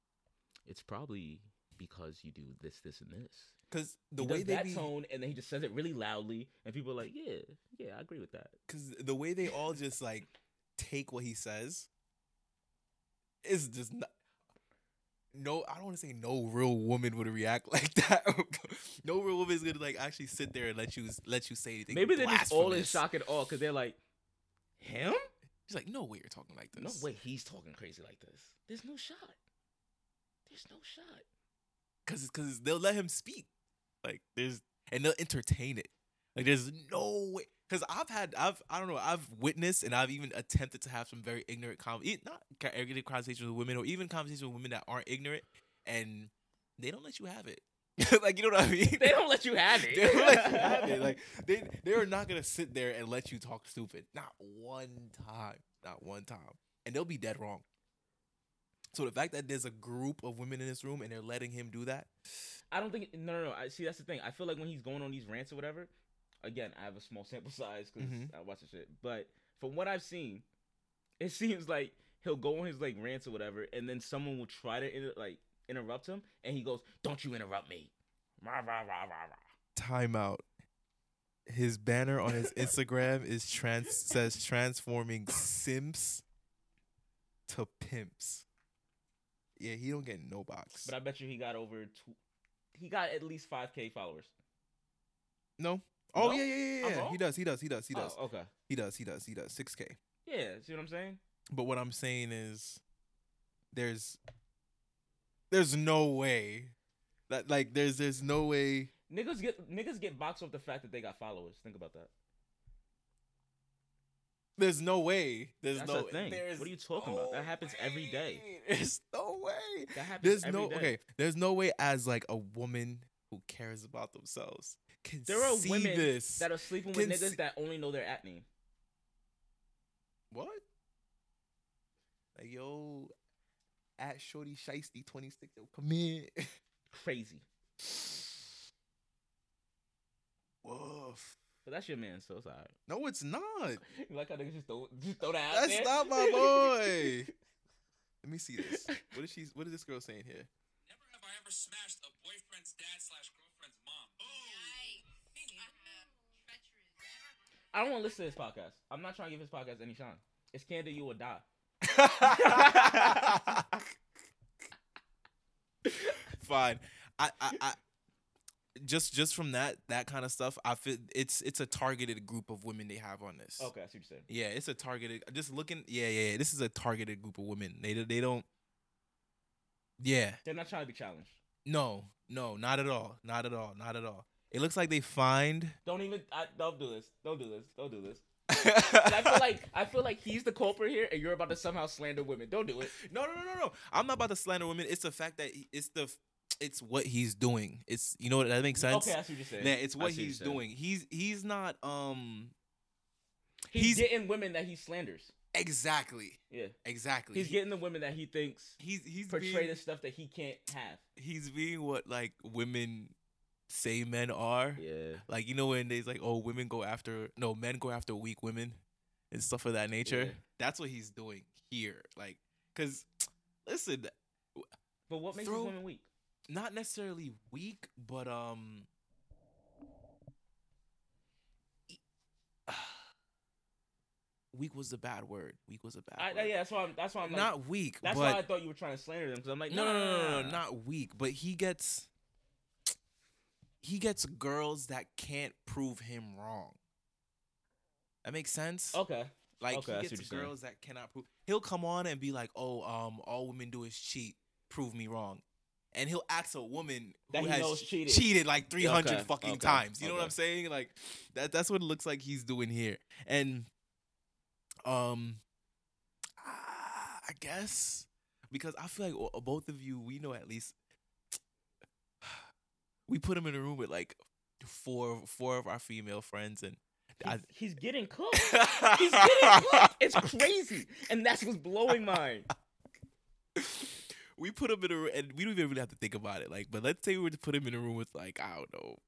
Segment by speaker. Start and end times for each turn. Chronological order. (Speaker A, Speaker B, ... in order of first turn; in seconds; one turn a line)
Speaker A: 0.7-3.5
Speaker B: 3.7-4.9
Speaker A: 4.2-8.6
Speaker B: 8.7-11.9
Speaker B: 13.4-14.1
Speaker B: 15.3-23.1
Speaker A: 21.9-24.0
Speaker A: 24.8-25.3
Speaker B: 25.7-27.1
Speaker A: 26.8-29.4
Speaker A: 30.5-31.2
Speaker B: 32.1-33.5
Speaker B: 34.0-49.2
Speaker A: 48.9-51.1
Speaker B: 49.7-57.6
Speaker B: 58.9-62.1
Speaker A: 62.7-65.9
Speaker A: 66.4-70.5
Speaker B: 68.0-68.3
Speaker A: 71.2-79.4
Speaker B: 79.8-80.5
Speaker B: 81.5-86.2
Speaker B: 87.5-88.5
Speaker B: 89.6-90.9
Speaker A: 90.8-92.2
Speaker A: 92.7-94.3
Speaker B: 95.6-100.0
Speaker A: 96.2-97.2
Speaker A: 97.9-98.5
Speaker A: 100.2-101.2
Speaker B: 101.5-102.8
Speaker B: 103.7-104.2
Speaker B: 105.5-106.8
Speaker B: 107.3-108.9
Speaker A: 109.1-112.1
Speaker B: 114.6-127.4
Speaker A: 115.8-118.4
Speaker A: 119.9-121.0
Speaker A: 125.3-128.5
Speaker B: 130.3-130.6
Speaker B: 132.3-133.1
Speaker B: 134.0-136.6
Speaker A: 136.9-137.4
Speaker B: 140.6-141.4
Speaker A: 141.7-142.7
Speaker B: 142.9-143.8
Speaker A: 143.9-147.1
Speaker B: 145.5-147.3
Speaker B: 148.2-150.5
Speaker C: 150.9-155.0
Speaker C: 155.5-156.1
Speaker A: 157.7-161.4
Speaker B: 161.8-163.9
Speaker A: 162.2-163.4
Speaker A: 165.9-166.2
Speaker B: 166.2-167.8
Speaker B: 168.8-173.7
Speaker A: 173.6-174.3
Speaker B: 174.3-178.5
Speaker B: 180.0-180.4
Speaker A: 180.4-181.4
Speaker B: 181.7-185.8
Speaker A: 185.8-188.2
Speaker B: 188.5-189.4
Speaker A: 188.8-192.9
Speaker B: 192.8-202.5
Speaker A: 198.8-200.6
Speaker A: 203.7-205.3
Speaker B: 203.7-204.1
Speaker B: 205.5-207.6
Speaker A: 206.5-206.8
Speaker A: 207.3-211.0
Speaker B: 208.8-209.8
Speaker B: 211.2-213.2
Speaker B: 213.7-218.8
Speaker A: 214.8-215.2
Speaker B: 219.3-223.1
Speaker A: 220.0-220.4
Speaker B: 223.7-224.7
Speaker A: 225.1-226.1
Speaker B: 225.3-225.8
Speaker B: 226.5-228.9
Speaker B: 232.7-233.1
Speaker B: 234.5-236.5
Speaker A: 236.2-240.6
Speaker B: 237.2-238.4
Speaker B: 239.7-242.1
Speaker B: 243.8-246.8
Speaker B: 248.2-249.0
Speaker A: 248.9-250.5
Speaker B: 249.6-263.7
Speaker A: 257.3-258.3
Speaker A: 258.8-260.3
Speaker B: 264.9-265.4
Speaker B: 266.4-270.8
Speaker B: 273.1-277.4
Speaker A: 277.2-282.5
Speaker B: 278.4-280.3
Speaker B: 283.6-289.0